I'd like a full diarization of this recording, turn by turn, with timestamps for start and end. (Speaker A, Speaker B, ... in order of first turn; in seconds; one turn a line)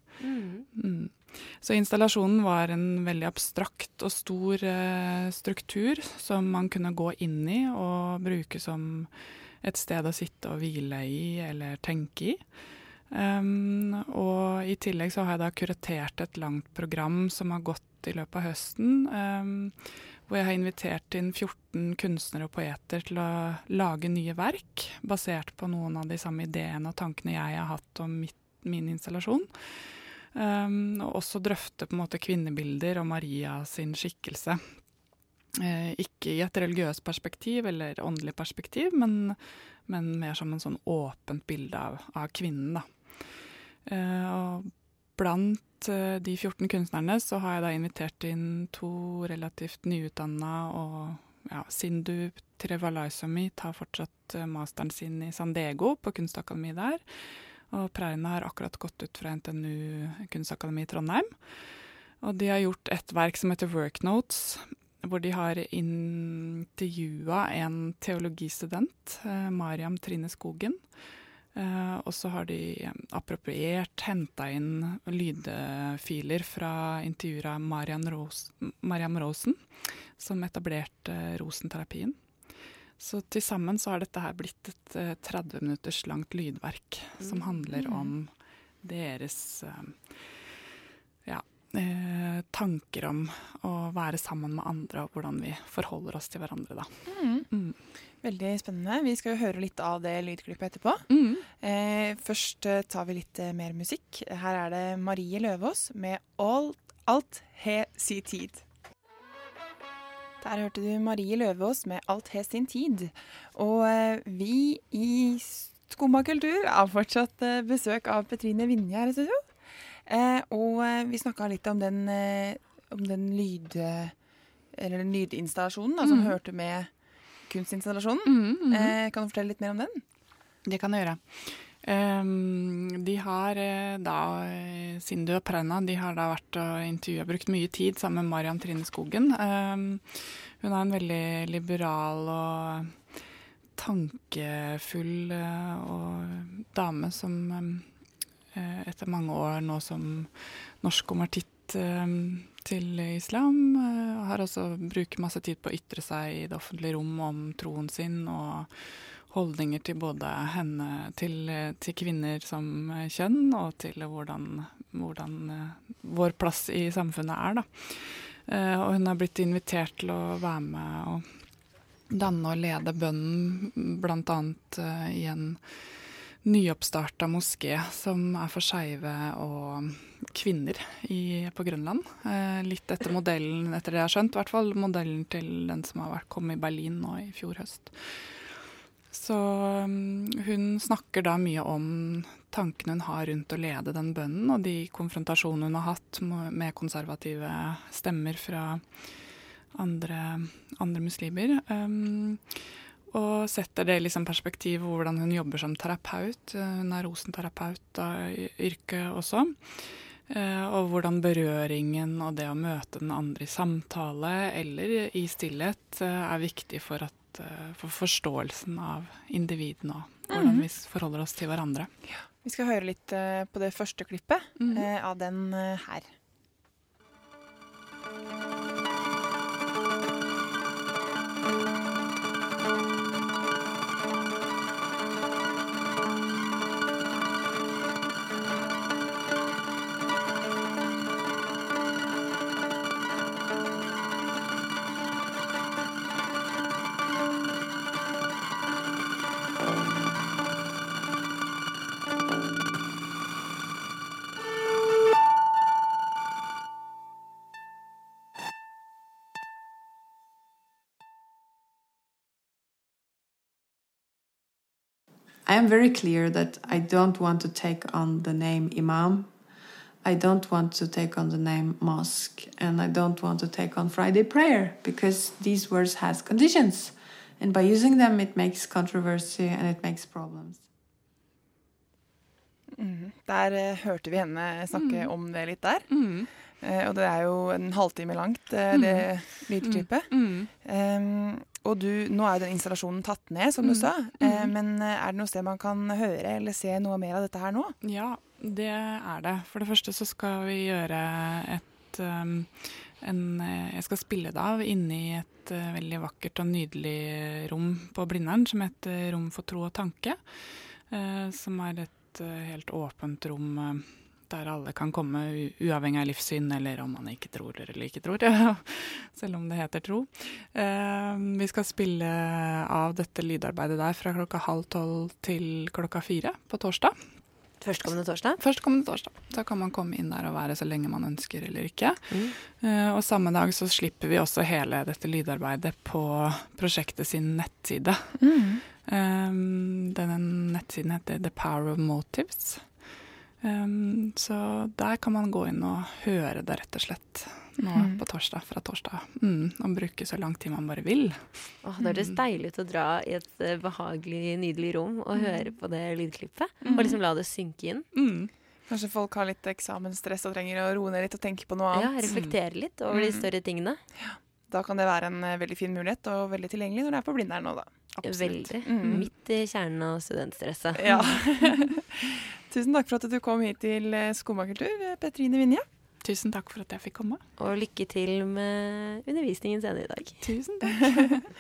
Speaker A: 0.2-0.7
Speaker B: 0.8-12.4
Speaker B: 13.1-34.7
Speaker B: 35.6-42.9
Speaker B: 43.9-57.0
Speaker B: 57.7-61.4
Speaker B: 62.2-70.8
Speaker B: 71.5-82.2
Speaker B: 83.0-88.3
Speaker C: 87.8-88.1
Speaker B: 88.8-90.2
Speaker B: 91.2-97.8
Speaker C: 97.1-97.5
Speaker C: 98.2-108.6
Speaker B: 101.1-101.5
Speaker C: 110.4-119.5
Speaker C: 120.1-124.1
Speaker C: 124.7-126.9
Speaker B: 126.0-126.4
Speaker C: 127.5-130.0
Speaker B: 128.2-129.0
Speaker B: 130.6-143.0
Speaker B: 143.8-147.9
Speaker B: 148.5-171.2
Speaker B: 172.1-188.5
Speaker B: 189.1-198.8
Speaker B: 199.7-221.9
Speaker C: 220.3-220.6
Speaker C: 222.1-226.1
Speaker B: 224.6-224.9
Speaker D: 265.5-269.4
Speaker D: 270.0-280.6
Speaker C: 282.8-297.8
Speaker B: 284.7-285.1
Speaker B: 285.9-286.3
Speaker B: 288.7-290.5
Speaker B: 293.6-294.5
Speaker B: 297.8-327.0
Speaker A: 327.6-328.4
Speaker B: 328.4-338.2
Speaker A: 332.1-332.4
Speaker C: 338.2-338.6
Speaker B: 338.8-342.7
Speaker B: 343.4-351.5
Speaker C: 347.7-348.0
Speaker A: 351.6-357.9
Speaker C: 356.6-357.0
Speaker B: 357.9-358.3
Speaker C: 358.7-362.2
Speaker A: 361.7-363.8
Speaker B: 362.1-362.3
Speaker C: 362.9-363.3
Speaker C: 364.0-367.7
Speaker B: 368.0-369.0
Speaker A: 368.0-371.0
Speaker C: 368.6-369.1
Speaker C: 370.8-375.6
Speaker B: 376.0-377.2
Speaker A: 377.4-380.2
Speaker B: 380.2-381.3